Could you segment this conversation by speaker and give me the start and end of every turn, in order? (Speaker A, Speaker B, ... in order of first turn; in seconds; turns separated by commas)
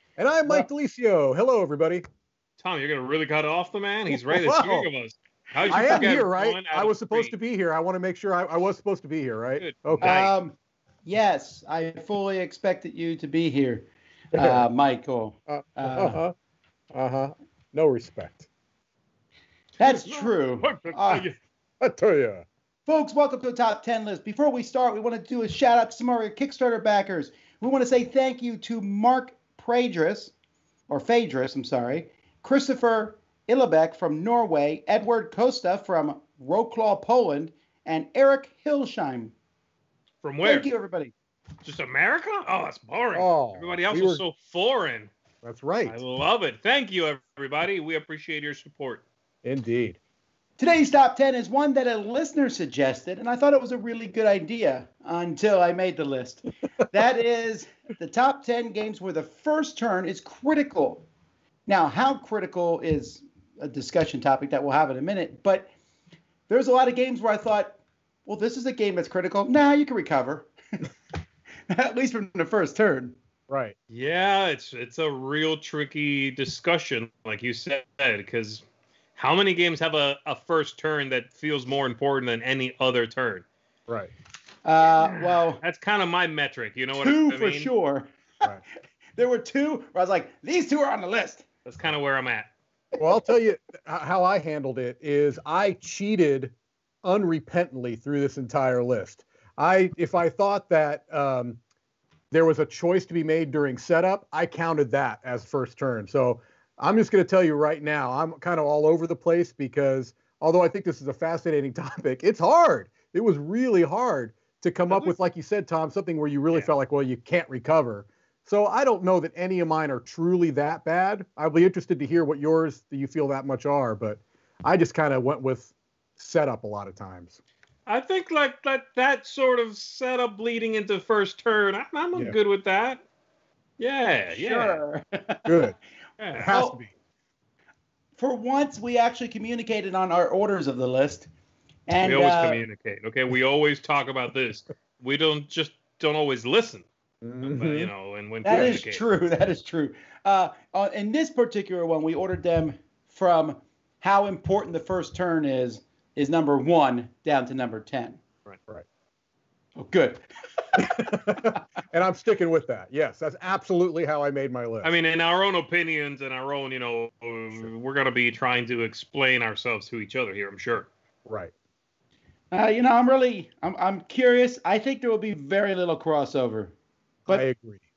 Speaker A: 0.2-2.0, Speaker B: 2.6-7.3, Speaker A: 4.1-4.9, Speaker C: 5.6-6.1, Speaker A: 5.7-10.2, Speaker B: 9.6-10.3, Speaker C: 10.0-16.2, Speaker A: 14.3-14.6, Speaker A: 15.5-16.3, Speaker A: 16.9-18.5, Speaker C: 19.8-21.2, Speaker B: 19.8-21.4, Speaker A: 21.8-22.4, Speaker C: 22.9-30.3, Speaker C: 30.9-39.3, Speaker B: 40.2-40.7, Speaker C: 40.4-41.1, Speaker B: 41.6-45.1, Speaker A: 43.1-44.2, Speaker A: 45.4-46.0, Speaker B: 45.9-49.0, Speaker A: 49.4-50.0, Speaker C: 50.6-61.0, Speaker C: 61.7-65.7, Speaker C: 66.5-70.9, Speaker C: 71.7-73.2, Speaker A: 73.5-73.7, Speaker B: 73.9-78.6, Speaker B: 79.2-83.4, Speaker C: 84.6-85.6, Speaker B: 85.0-87.7, Speaker C: 87.0-88.1, Speaker C: 89.2-91.5, Speaker B: 91.7-92.5, Speaker A: 93.0-96.5, Speaker A: 97.0-101.6, Speaker A: 102.3-127.4, Speaker B: 114.9-115.1, Speaker B: 127.9-133.0, Speaker B: 133.8-134.8, Speaker C: 134.3-135.5, Speaker A: 135.4-135.8, Speaker B: 136.2-136.5, Speaker A: 136.4-136.9, Speaker C: 136.5-136.8, Speaker C: 138.2-141.3, Speaker C: 141.9-142.6, Speaker B: 142.0-146.8, Speaker A: 147.2-147.9, Speaker B: 147.4-149.0, Speaker C: 148.4-158.2, Speaker A: 148.5-148.8, Speaker C: 159.8-160.2, Speaker A: 160.8-164.9, Speaker B: 164.8-170.9, Speaker A: 171.2-171.5, Speaker C: 172.5-176.7, Speaker A: 177.3-177.8